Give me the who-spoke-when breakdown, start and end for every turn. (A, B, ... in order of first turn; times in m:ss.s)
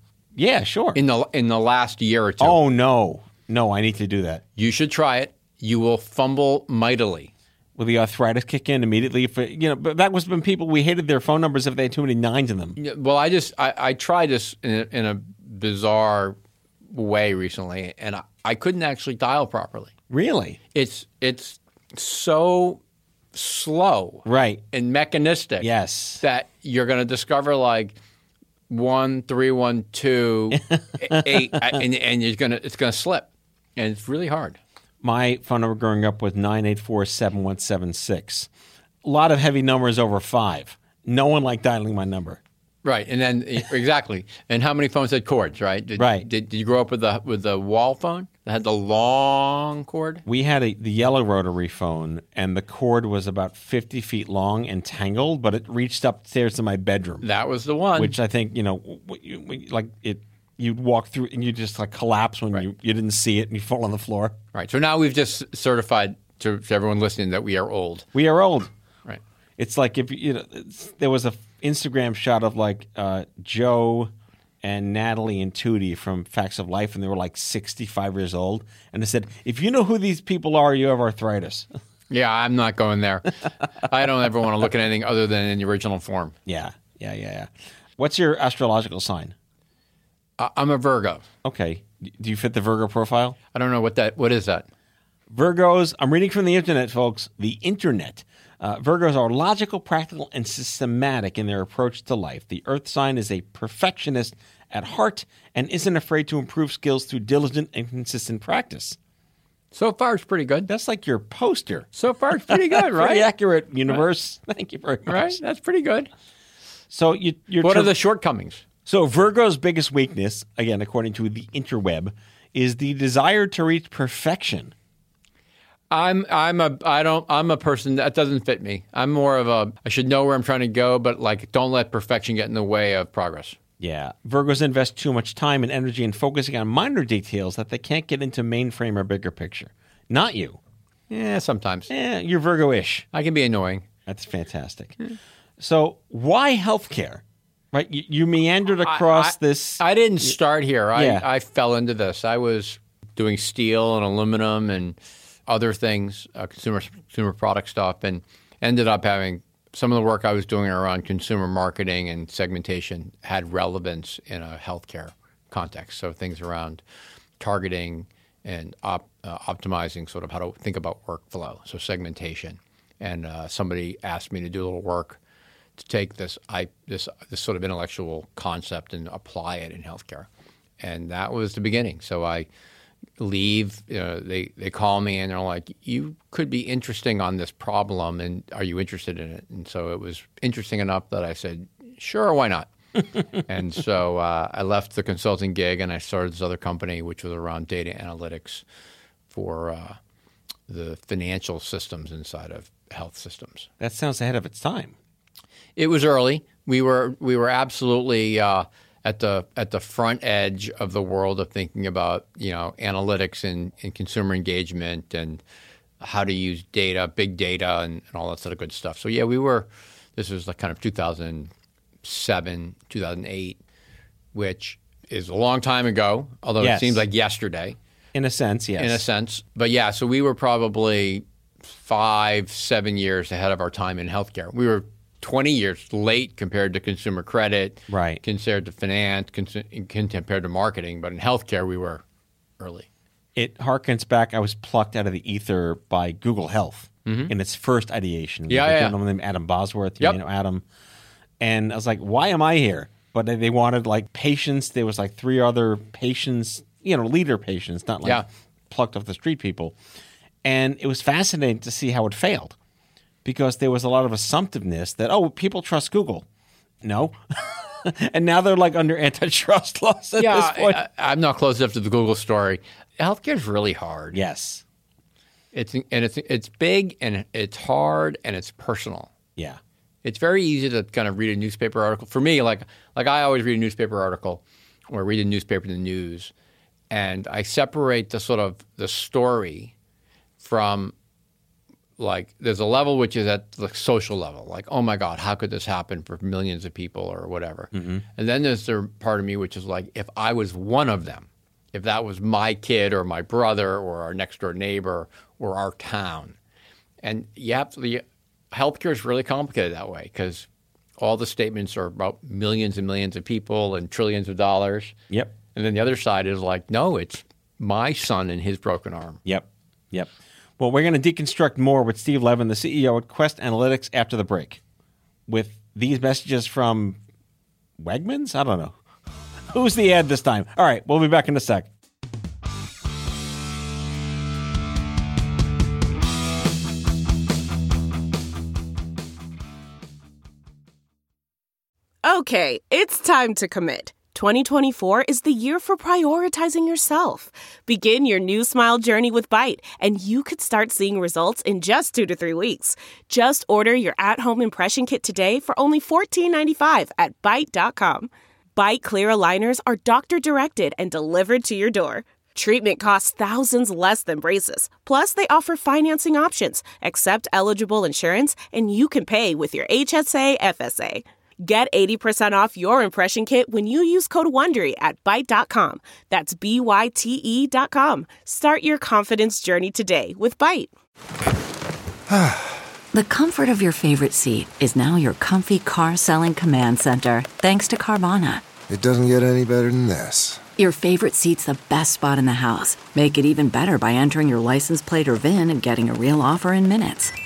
0:00.4-0:01.0 A
0:01.0-0:02.6 B
0:02.4-0:04.4 A
0:04.6-0:07.3 B
0:07.8-0:12.8 A
0:12.8-0:16.4 B
0:16.9-0:19.9 B
0:20.1-0:20.6 A
0:20.7-0:22.8 B
0:23.3-0:25.7 B
0:24.3-0:24.6 A
0:25.6-0:26.2 A
0:26.2-0:28.0 B
0:28.7-0:34.6 B
0:30.5-0:31.8 A
0:35.0-0:38.5 A
0:39.0-0:42.4 A
0:42.8-0:50.2 B
0:46.0-0:46.3 A
0:50.3-0:57.3 A
0:57.2-0:58.2 B
0:58.0-1:04.4 A
1:04.5-1:08.1 B
1:08.1-1:08.7 A
1:09.6-1:21.7 A
1:22.1-1:26.4 B
1:26.5-1:29.4 A
1:30.4-1:31.3 B
1:31.4-1:33.4 A
1:33.5-1:34.7 B
1:35.3-1:49.0 A
1:49.7-1:50.7 B
1:50.7-1:51.9 A
1:52.0-1:53.2 B
1:52.5-1:55.4 A
1:55.1-1:56.1 B
1:56.9-1:57.9 A
1:57.6-1:58.6 B
1:58.9-2:04.7 A
2:05.9-2:13.6 B
2:13.8-2:20.6 A
2:21.1-2:21.9 B
2:21.9-2:23.1 A
2:23.1-2:23.8 B
2:24.1-2:25.0 A
2:25.6-2:30.4 A
2:28.8-2:46.8 B
2:31.0-2:31.3 A
2:47.4-2:55.2 B
2:55.8-3:00.3 B
3:00.8-3:02.5 B
3:03.2-3:12.7 B
3:13.4-3:18.6 B
3:19.3-3:20.0 B
3:20.7-3:23.7 B
3:23.8-3:25.0 A
3:25.8-3:35.4 B
3:36.0-3:41.5 B
3:42.0-3:43.6 B
3:44.3-3:47.8 B
3:46.6-3:47.0 A
3:48.1-3:49.0 A
3:48.8-4:02.0 B
3:57.9-3:58.2 A
4:02.6-4:02.9 B
4:03.4-4:10.6 A
4:07.1-4:07.3 B
4:08.5-4:09.0 B
4:11.4-4:19.8 A
4:20.4-4:22.6 A
4:23.2-4:26.2 A
4:26.8-4:30.8 A
4:30.2-4:34.2 B
4:34.1-4:34.6 A
4:35.5-4:39.1 B
4:40.0-4:46.3 B
4:46.9-4:49.7 B
4:50.4-4:50.9 B
4:52.0-5:06.4 B
4:57.7-4:58.0 A
5:07.0-5:10.5 B
5:11.0-5:15.0 B
5:15.6-5:19.2 B
5:19.2-5:24.6 A
5:25.3-5:27.0 A
5:27.8-5:28.8 A
5:29.5-5:31.7 A
5:42.0-6:20.7 C
6:22.1-6:22.5 D
6:22.9-6:28.5 E
6:28.7-6:30.4 D
6:30.6-6:37.1 E